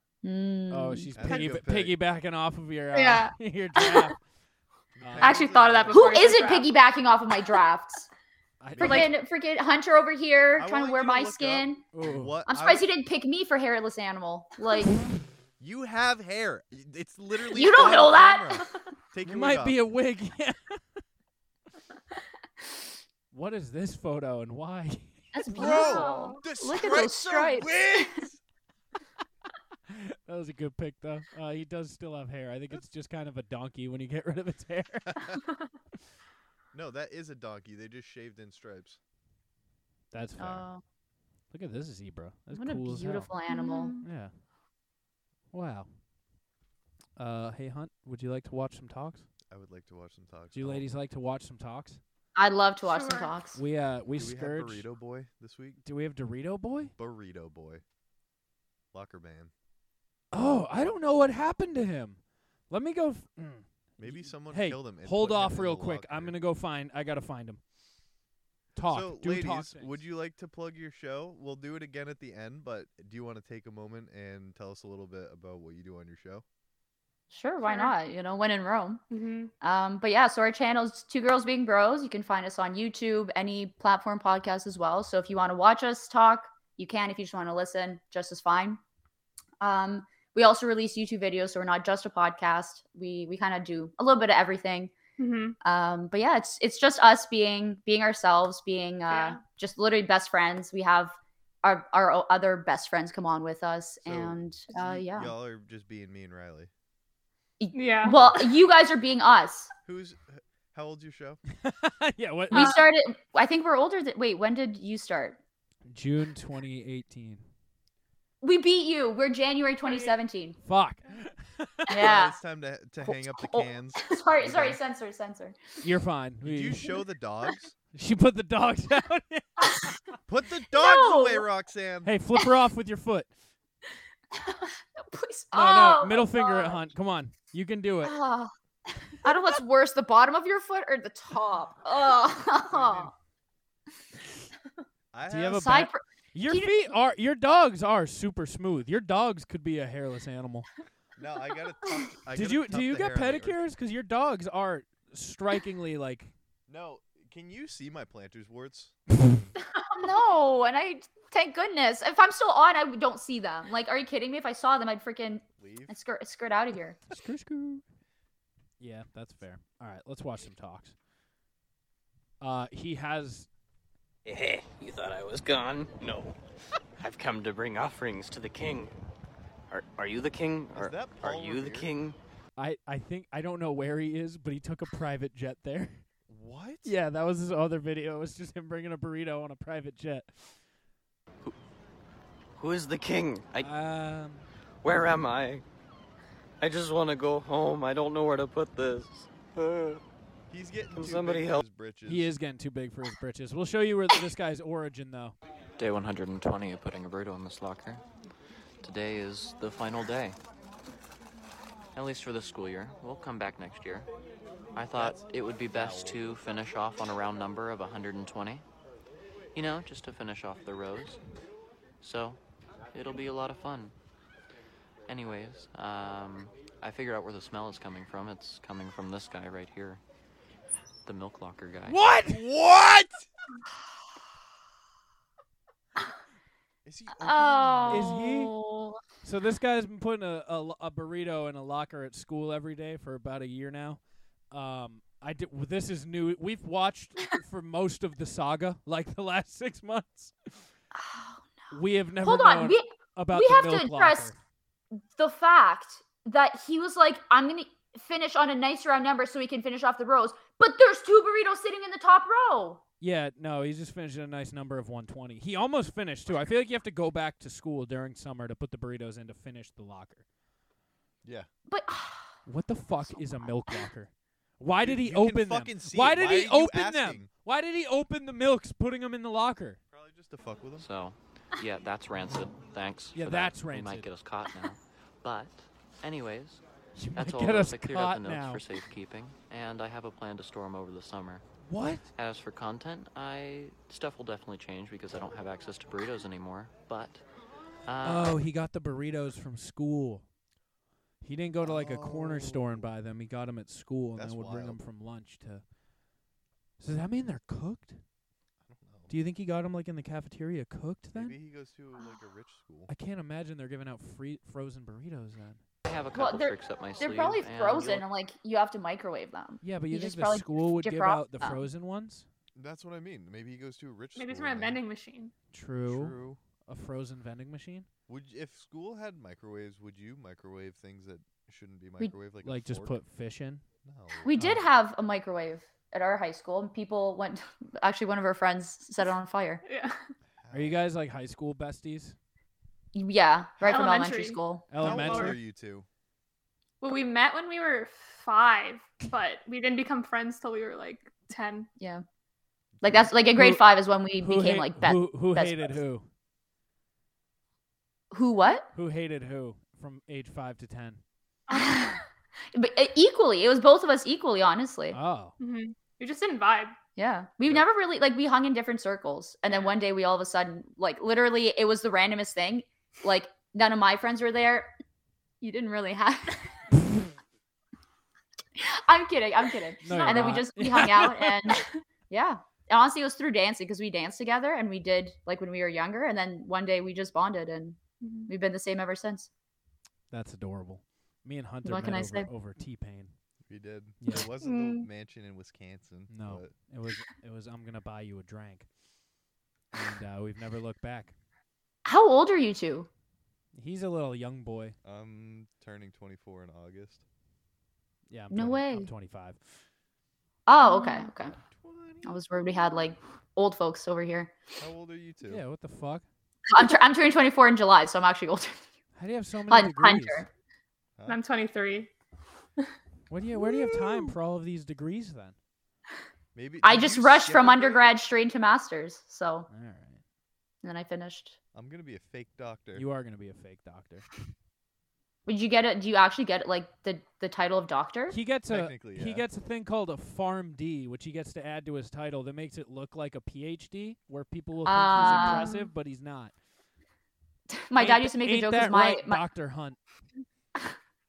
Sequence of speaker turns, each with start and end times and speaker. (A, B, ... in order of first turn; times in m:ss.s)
0:00.2-0:01.5 A
0:00.7-0:04.2 B
0:01.2-0:02.0 C
0:02.9-0:04.1 D
0:04.9-0:06.4 C
0:05.0-0:05.5 B
0:05.2-0:06.7 D
0:05.9-0:08.1 A
0:08.6-0:09.1 B
0:08.7-0:09.1 C
0:08.8-0:11.8 A
0:10.6-0:12.8 C
0:11.9-0:12.4 B
0:12.4-0:15.1 A
0:15.6-0:19.8 C
0:17.5-0:18.7 A
0:19.2-0:20.8 B
0:23.3-0:25.6 B
0:25.3-0:28.2 A
0:25.5-0:28.4 C
0:25.6-0:26.4 D
0:29.9-0:35.1 B
0:35.1-0:35.4 C
0:36.7-0:39.0 C
0:40.1-0:40.7 B
0:40.4-0:40.8 A
0:41.5-0:43.3 B
0:42.5-0:43.9 A
0:43.5-0:44.0 D
0:44.0-0:44.4 B
0:45.5-0:46.0 B
0:47.2-0:49.3 B
0:49.5-0:50.9 C
0:50.5-0:52.0 B
0:52.3-0:53.6 A
0:52.9-0:53.3 D
0:53.5-0:54.9 B
0:54.2-0:55.8 C
0:55.8-0:56.9 B
0:57.0-0:57.8 C
0:58.9-0:59.5 C
1:00.3-1:07.6 B
1:00.7-1:00.9 C
1:04.0-1:06.4 C
1:08.7-1:10.0 B
1:08.8-1:16.4 C
1:17.3-1:19.0 A
1:17.6-1:17.9 D
1:19.1-1:19.5 D
1:19.6-1:28.8 A
1:29.6-1:34.9 A
1:35.2-1:35.6 D
1:35.6-1:45.3 A
1:39.1-1:39.4 D
1:44.0-1:46.7 C
1:47.6-1:49.7 A
1:47.7-1:48.2 D
1:48.1-1:48.4 C
1:49.8-1:51.4 C
1:51.6-1:52.7 B
1:52.5-1:55.4 A
1:52.5-1:52.8 D
1:55.9-1:57.4 B
1:58.4-2:00.6 A
1:59.8-2:00.1 D
2:00.6-2:02.0 B
2:01.9-2:02.4 A
2:02.0-2:04.8 C
2:03.0-2:05.6 A
2:05.8-2:06.9 B
2:06.4-2:07.7 C
2:07.9-2:09.9 B
2:10.3-2:12.1 C
2:10.7-2:11.4 A
2:12.0-2:13.3 B
2:15.0-2:16.8 A
2:15.5-2:18.1 B
2:18.0-2:18.5 A
2:19.1-2:23.1 A
2:22.7-2:23.1 C
2:25.1-2:25.8 C
2:25.3-2:30.7 B
2:25.5-2:26.9 A
2:31.2-2:33.6 C
2:32.3-2:36.3 B
2:36.7-2:39.5 C
2:40.0-2:47.0 A
2:45.6-2:46.0 C
2:47.1-2:47.8 B
2:48.8-2:50.9 B
2:52.4-2:53.5 B
2:54.2-2:56.3 E
2:57.0-2:58.9 E
2:59.7-3:02.2 E
3:00.7-3:01.9 C
3:02.6-3:06.0 B
3:06.3-3:06.9 C
3:06.8-3:10.6 B
3:12.6-3:13.7 E
3:13.6-3:14.5 B
3:14.8-3:15.6 E
3:16.6-3:20.0 E
3:20.5-3:22.3 C
3:20.9-3:21.6 E
3:22.0-3:25.4 B
3:25.8-3:28.0 E
3:28.8-3:30.4 E
3:31.9-3:34.1 E
3:34.7-3:38.6 E
3:34.9-3:36.3 C
3:39.5-3:41.2 E
3:42.0-3:42.4 E
3:42.9-3:43.9 E
3:45.1-3:50.0 E
3:51.0-3:52.1 E
3:51.8-3:52.4 B
3:52.2-3:53.2 C
3:56.8-3:58.1 C
3:57.2-3:59.0 A
3:57.9-3:58.5 B
3:59.2-4:10.7 B
4:10.9-4:14.3 A
4:11.7-4:14.4 B
4:15.1-4:22.8 A
4:23.0-4:30.2 B
4:31.2-4:31.5 C
4:31.7-4:32.4 A
4:32.4-4:39.8 B
4:33.1-4:33.5 A
4:34.8-4:37.3 C
4:39.9-4:40.9 C
4:40.8-4:46.6 E
4:43.1-4:44.1 B
4:47.0-4:48.6 B
4:47.1-4:51.4 E
4:51.6-4:52.1 B
4:52.1-4:57.2 E
4:57.8-4:58.3 E
4:58.0-5:00.3 B
5:01.2-5:05.6 B
5:01.6-5:02.8 C
5:04.2-5:04.8 C
5:06.8-5:08.0 B
5:08.6-5:09.1 C
5:09.1-5:11.4 B
5:11.1-5:12.9 C
5:12.9-5:15.6 B
5:15.8-5:18.0 E
5:16.1-5:21.6 A
5:19.6-5:22.2 B
5:22.5-5:24.8 C
5:24.1-5:25.3 D
5:25.5-5:27.9 B
5:25.8-5:26.4 C
5:28.1-5:33.0 C
5:32.4-5:33.6 B
5:33.8-5:34.5 C
5:34.2-5:39.6 A
5:34.3-5:34.6 B
5:39.6-5:40.0 D
5:40.3-5:40.9 C
5:40.5-5:42.2 B
5:42.9-5:44.7 A
5:43.6-5:45.3 D
5:44.7-5:45.4 B
5:44.8-5:45.9 C
5:46.8-5:51.7 D
5:52.8-5:53.1 C
5:52.8-5:55.8 A
5:53.3-5:56.0 B
5:58.1-5:58.7 A
5:58.7-6:01.0 B
6:01.5-6:02.0 D
6:01.5-6:02.0 A
6:02.5-6:05.0 A
6:04.9-6:05.3 B
6:05.4-6:06.7 D
6:07.0-6:14.7 A
6:09.5-6:09.7 D
6:15.4-6:16.4 A
6:18.6-6:27.8 A
6:19.8-6:21.3 B
6:19.9-6:20.4 D
6:28.0-6:28.3 D
6:28.3-6:29.3 A
6:30.1-6:33.1 B
6:31.6-6:32.3 A
6:33.5-6:36.5 C
6:34.0-6:34.3 B
6:34.4-6:34.9 D
6:36.1-6:38.7 B
6:39.7-6:41.1 B
6:41.8-6:42.9 A
6:43.5-6:44.8 B
6:44.8-6:47.0 C
6:48.1-6:49.4 B
6:48.3-6:48.9 A
6:50.5-6:51.3 A
6:50.6-6:51.1 D
6:51.4-6:52.2 C
6:52.0-6:54.3 A
6:54.6-6:55.4 C
6:55.3-6:56.0 B
6:56.5-6:58.6 A
6:59.0-7:00.2 B
6:59.5-7:00.3 A
7:01.0-7:01.2 C
7:01.1-7:01.9 D
7:03.1-7:05.3 B
7:06.3-7:07.9 C
7:06.6-7:09.5 A
7:09.5-7:10.0 B
7:10.6-7:11.4 A
7:11.5-7:12.9 C
7:12.7-7:14.0 B
7:15.2-7:18.2 A
7:18.1-7:26.3 B
7:18.5-7:19.3 C
7:24.6-7:25.6 A
7:27.5-7:29.2 A
7:27.8-7:29.8 B